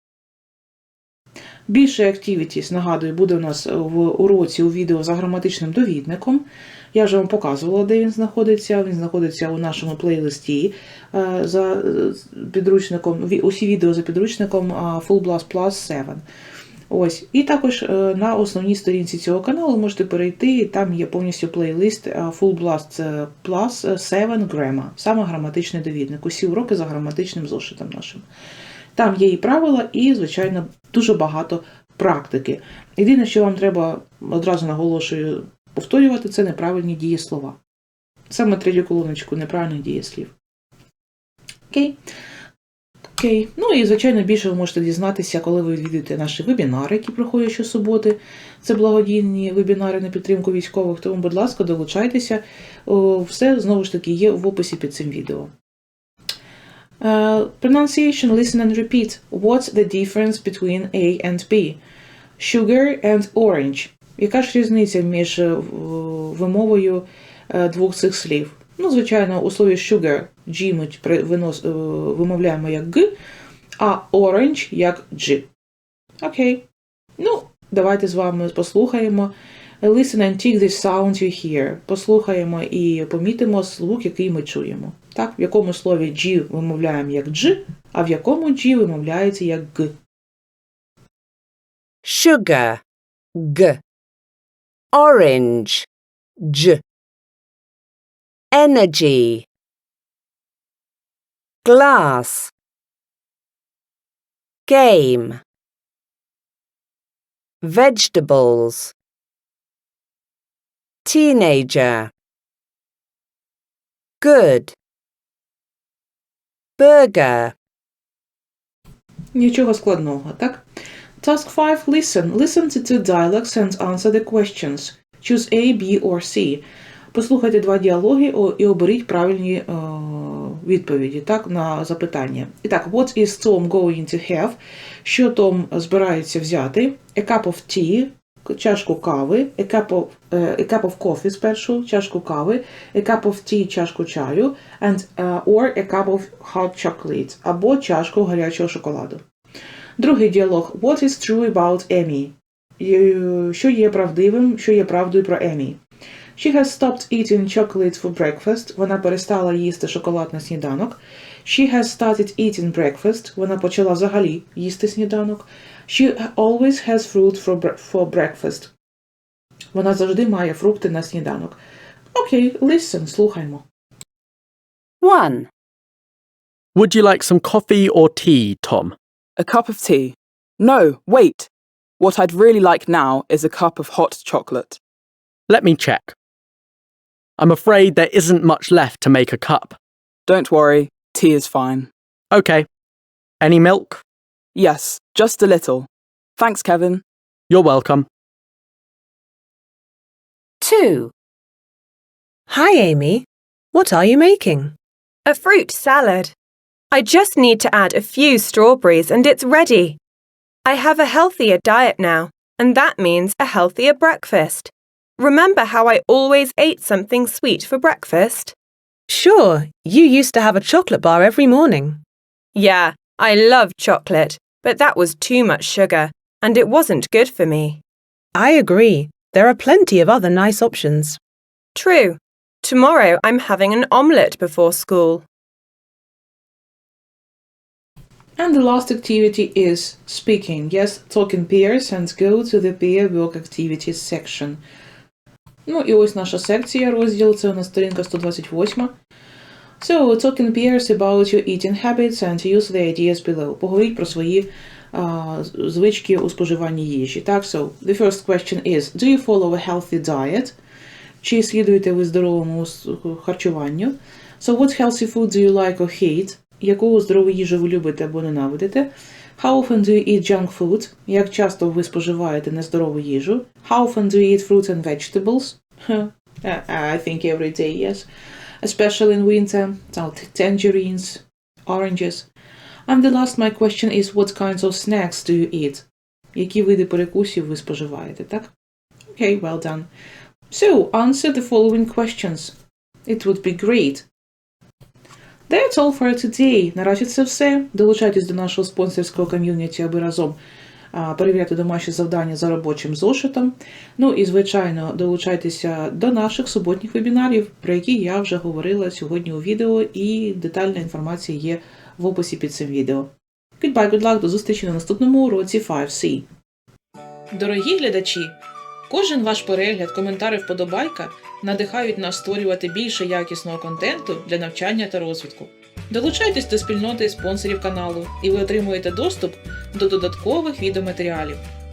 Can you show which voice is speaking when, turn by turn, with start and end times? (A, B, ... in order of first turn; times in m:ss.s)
0:01.7-0:16.2 A
0:16.9-0:28.2 A
0:29.0-0:37.6 A
0:38.3-0:40.3 A
0:41.7-0:42.0 A
0:43.2-0:55.5 A
0:57.0-1:01.8 A
1:02.4-1:13.1 A
1:13.8-1:15.5 A
1:16.2-1:16.6 A
1:17.2-1:29.9 A
1:32.0-1:32.8 B
1:33.3-1:33.8 B
1:34.9-1:35.9 B
1:36.4-1:36.8 B
1:38.5-1:39.5 B
1:41.6-1:42.5 B
1:44.7-1:45.4 B
1:47.6-1:48.9 B
1:51.0-1:52.1 B
1:54.2-1:54.7 B
1:56.8-1:57.5 B
1:59.3-2:00.6 A
2:01.2-2:29.2 A
2:30.0-2:35.8 A
2:36.4-2:48.7 A
2:49.7-2:51.6 A
2:52.1-2:53.6 A
2:55.0-2:55.5 B
2:56.7-2:58.9 C
2:59.4-3:04.8 D
3:05.5-3:06.1 C
3:07.4-3:09.8 C
3:10.2-3:11.9 D
3:12.3-3:12.7 C
3:13.4-3:14.0 C
3:14.5-3:17.0 D
3:17.5-3:18.1 C
3:20.6-3:21.1 B
3:22.5-3:24.7 E
3:25.2-3:26.3 F
3:26.9-3:30.0 F
3:30.6-3:38.5 F
3:39.1-3:42.0 E
3:42.5-3:47.8 F
3:48.3-3:51.2 E
3:51.7-3:55.2 F
3:58.4-4:04.6 A
4:05.6-4:08.9 A
4:09.8-4:20.5 A
4:21.2-4:38.1 A
4:38.6-4:42.3 A
4:42.9-4:48.5 A
4:49.1-4:49.9 A
4:50.5-4:52.5 A
4:53.0-4:54.0 A
4:55.5-5:00.4 A
5:00.9-5:16.2 A
5:17.3-5:18.4 A
5:18.9-5:31.4 A